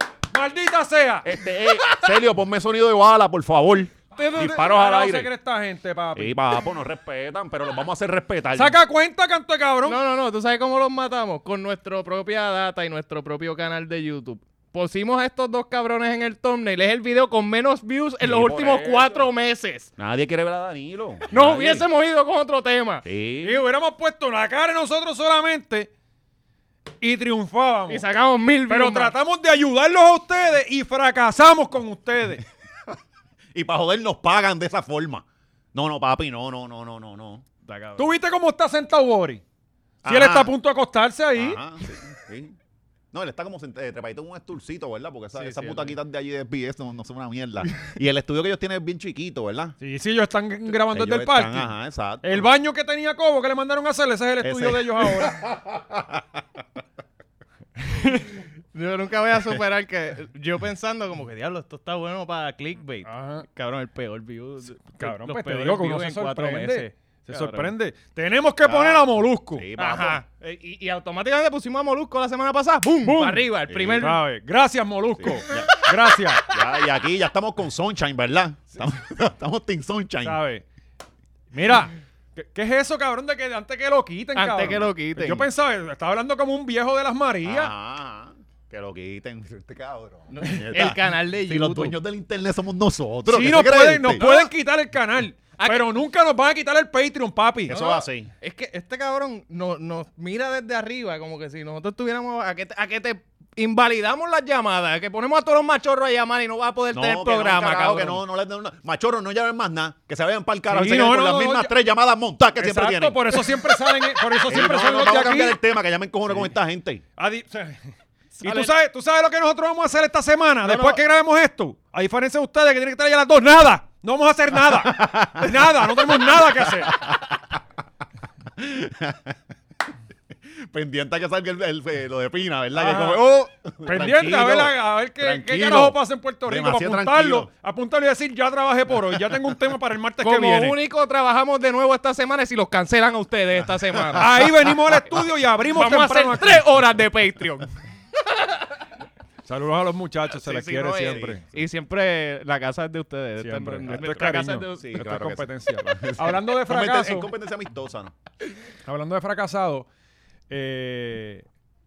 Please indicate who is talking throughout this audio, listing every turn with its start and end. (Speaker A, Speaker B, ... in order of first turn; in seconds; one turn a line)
Speaker A: 0.3-1.3
Speaker B: 1.2-5.3
Speaker A: 4.2-6.6
Speaker B: 6.1-8.8
Speaker A: 8.5-10.0
Speaker C: 9.8-19.9
Speaker B: 18.2-19.2
Speaker B: 20.0-21.9
Speaker C: 21.3-23.0
Speaker B: 23.0-23.6
Speaker A: 23.4-25.9
Speaker A: 27.0-28.0
Speaker C: 27.9-29.1
Speaker A: 28.7-32.4
Speaker B: 33.5-37.4
Speaker C: 37.6-38.1
Speaker A: 38.0-39.4
Speaker B: 40.0-40.5
Speaker A: 40.0-41.6
Speaker B: 41.3-42.5
Speaker B: 43.1-49.8
Speaker C: 45.3-46.0
Speaker A: 49.8-51.7
Speaker B: 50.7-52.5
Speaker A: 52.2-55.4
Speaker B: 54.4-56.4
Speaker A: 57.8-58.3
Speaker C: 58.7-67.7
Speaker A: 63.0-63.5
Speaker A: 65.0-69.6
Speaker B: 68.6-70.2
Speaker C: 69.8-74.2
Speaker A: 73.0-73.4
Speaker B: 73.7-74.2
Speaker A: 74.0-76.5
Speaker B: 75.2-75.8
Speaker B: 76.5-80.4
Speaker A: 80.2-80.6
Speaker A: 81.5-87.7
Speaker C: 84.3-85.5
Speaker B: 87.4-94.3
Speaker C: 90.3-92.0
Speaker A: 93.3-97.8
Speaker C: 94.2-94.5
Speaker C: 95.6-95.9
Speaker B: 97.7-98.3
Speaker C: 97.7-108.2
Speaker B: 106.9-117.0
Speaker A: 110.7-111.7
Speaker A: 112.5-115.6
Speaker A: 117.2-117.9
Speaker C: 118.4-118.7
Speaker A: 118.4-127.0
Speaker C: 120.6-121.0
Speaker B: 124.5-127.6
Speaker B: 128.6-129.4
Speaker B: 130.5-137.5
Speaker A: 132.7-133.2
Speaker A: 133.8-140.8
Speaker B: 139.1-139.4
Speaker C: 140.2-144.3
Speaker B: 143.6-145.0
Speaker A: 144.1-146.6
Speaker C: 145.7-147.7
Speaker A: 149.4-151.4
Speaker C: 150.3-154.9
Speaker B: 151.0-151.7
Speaker A: 153.4-157.3
Speaker B: 153.9-158.2
Speaker A: 158.8-159.8
Speaker A: 160.5-161.4